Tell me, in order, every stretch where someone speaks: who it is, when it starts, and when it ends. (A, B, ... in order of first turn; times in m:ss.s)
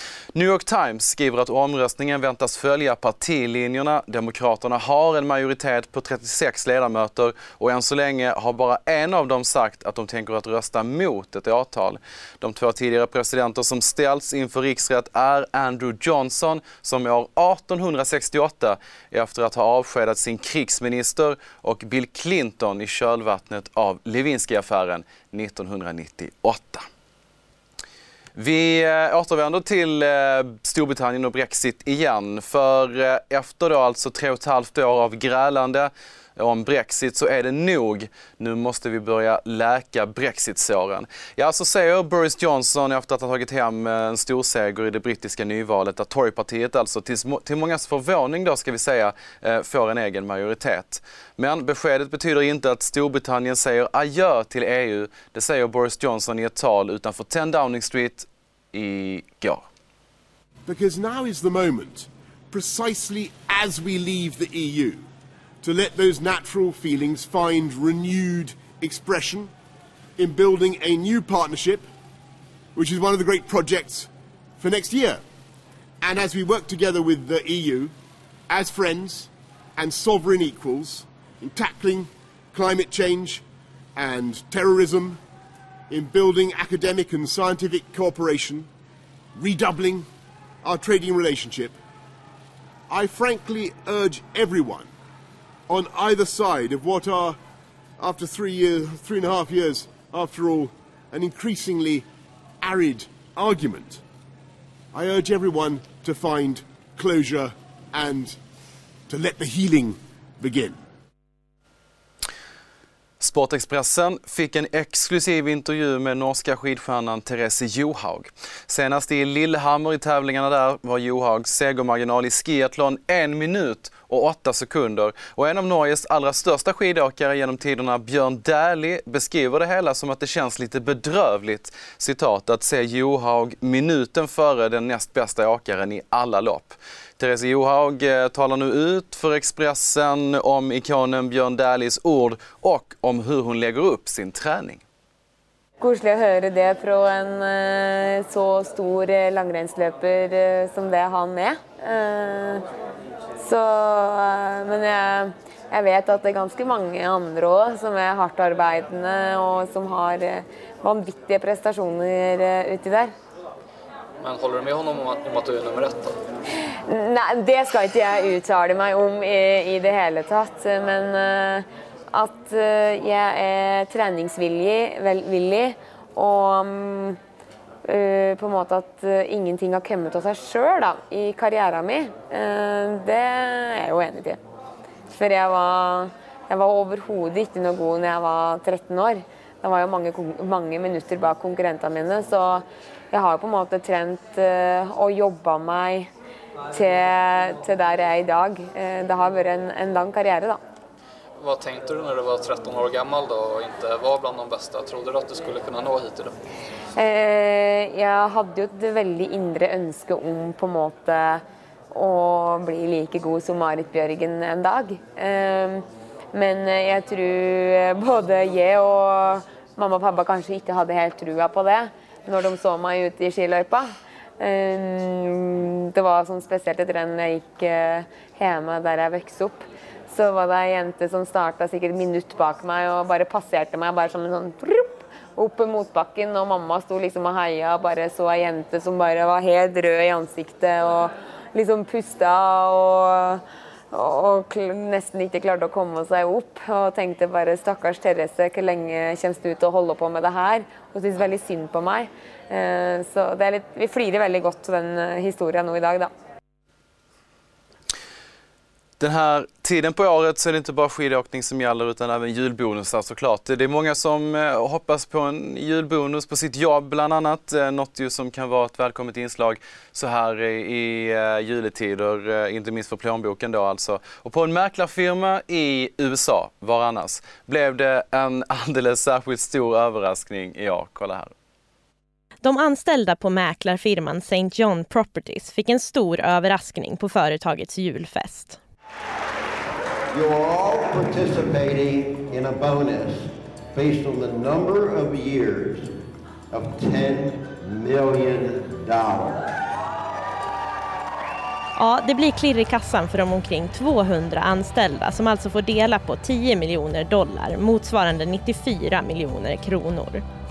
0:00.3-0:26.8 A
0:28.4-0:59.6 A
1:00.6-1:05.0 B
1:05.6-1:09.5 B
1:10.2-1:11.8 B
1:12.8-1:14.1 B
1:14.6-1:15.2 B
1:16.0-1:17.9 B
1:18.5-1:23.4 B
1:24.0-1:25.2 B
1:25.9-1:28.7 B
1:29.4-1:30.0 B
1:30.6-1:31.8 B
1:32.9-1:34.9 B
1:35.7-1:37.4 B
1:38.0-1:42.0 B
1:42.6-1:44.0 B
1:44.9-1:48.4 B
1:49.1-1:50.8 B
1:53.2-2:24.8 A
2:25.8-2:32.6 C
2:33.4-2:43.1 C
2:44.2-2:46.2 D
2:46.9-2:57.2 C
2:57.8-3:04.4 C
3:05.1-3:16.1 C
3:16.7-3:20.6 C
3:21.4-3:26.3 D
3:27.0-3:31.4 C
3:31.9-4:16.1 C
4:19.0-4:41.3 A
4:42.4-4:48.6 E
4:50.1-4:55.9 F
4:56.5-4:59.4 F
5:01.8-5:10.2 E